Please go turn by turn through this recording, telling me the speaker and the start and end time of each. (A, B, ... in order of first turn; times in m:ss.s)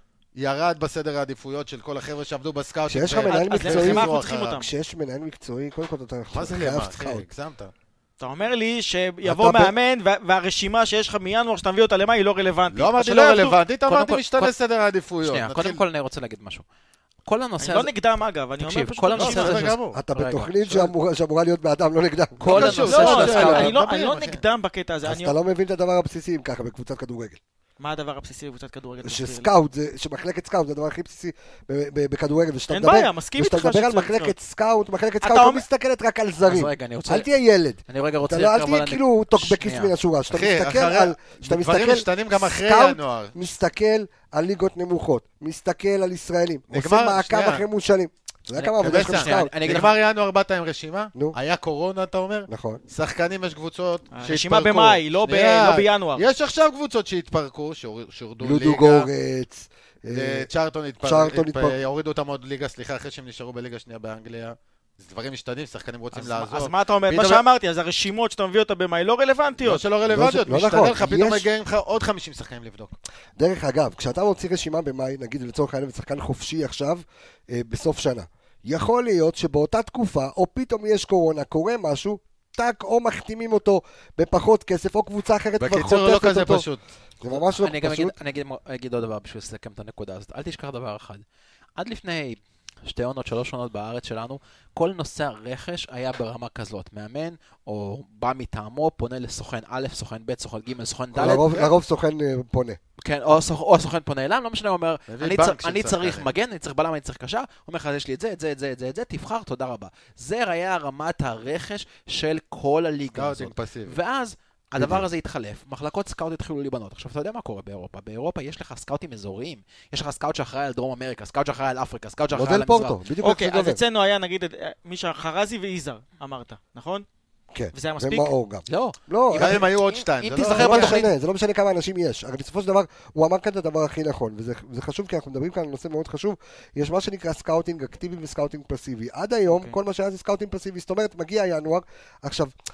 0:00.4-0:04.6 A
0:02.9-0:07.2 B
0:03.2-0:04.7 C
0:06.3-0:07.7 A
0:08.2-0:13.6 C
0:09.2-0:09.7 B
0:12.7-0:15.8 A
0:13.9-0:14.5 D
0:15.2-0:16.6 D
0:17.2-0:17.9 D
0:17.6-0:19.7 C
0:18.6-0:20.9 D
0:19.2-0:20.0 A
0:19.9-0:23.7 B
0:22.4-0:23.7 D
0:22.5-0:24.4 A
0:22.6-0:25.4 C
0:25.0-0:27.4 B
0:27.8-0:29.5 C
0:29.0-0:49.6 B
0:32.7-0:34.4 C
0:35.2-0:35.6 C
0:36.5-0:37.3 D
0:37.9-0:39.9 D
0:40.3-0:43.4 A
0:46.7-0:47.7 A
0:48.6-0:50.0 D
0:48.8-0:59.1 A
0:52.5-0:52.8 B
0:54.2-0:56.2 C
0:58.4-1:00.5 B
1:00.1-1:07.4 A
1:01.0-1:01.8 B
1:06.1-1:09.9 C
1:09.6-1:13.0 A
1:10.1-1:11.5 B
1:13.4-1:26.7 B
1:25.6-1:26.8 A
1:27.2-1:28.2 B
1:27.3-1:31.2 D
1:31.8-1:41.5 D
1:41.1-1:42.8 B
1:41.2-1:41.7 A
1:43.0-2:03.0 D
1:45.1-1:46.3 A
1:53.1-1:54.0 A
1:54.8-1:55.0 B
2:02.3-2:03.8 B
2:03.2-2:07.1 C
2:07.5-2:09.7 B
2:07.7-2:08.3 C
2:08.7-2:11.1 D
2:09.3-2:11.0 A
2:10.5-2:22.5 B
2:19.5-2:19.8 C